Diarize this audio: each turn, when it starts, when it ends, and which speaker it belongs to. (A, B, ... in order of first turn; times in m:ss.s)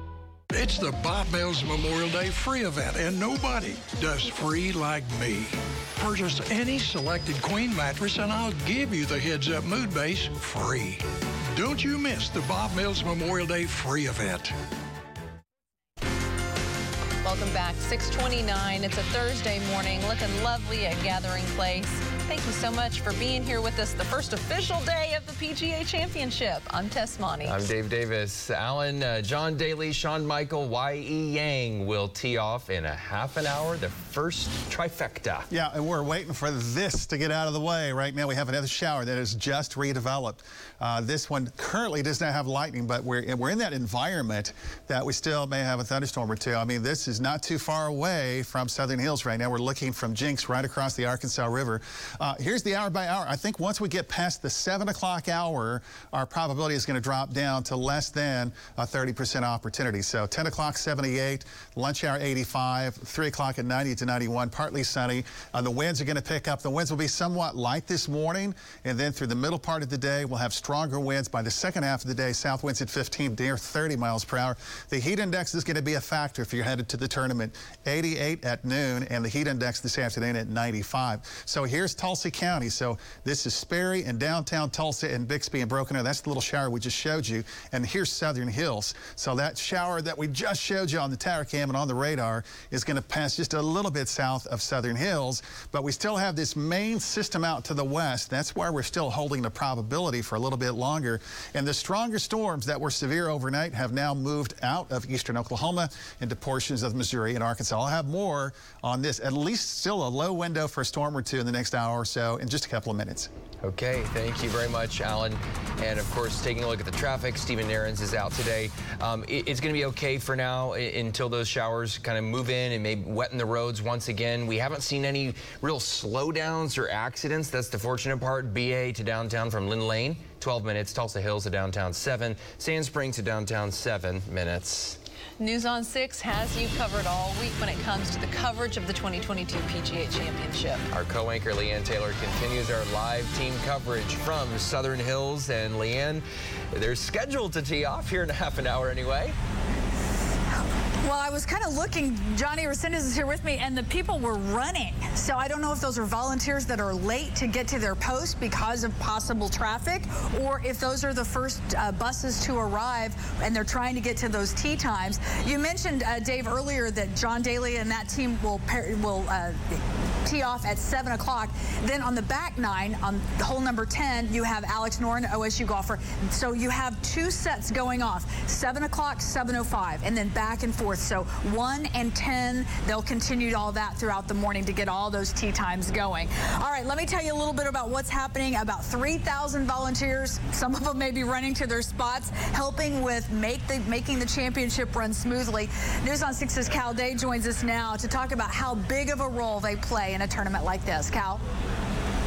0:00.5-0:14.5 A
0:17.2-0:27.6 B
0:27.4-0:35.5 C
0:35.5-1:53.3 D
1:53.6-2:15.0 C
2:15.4-2:20.8 B
2:20.9-2:29.4 C
2:31.0-3:21.4 E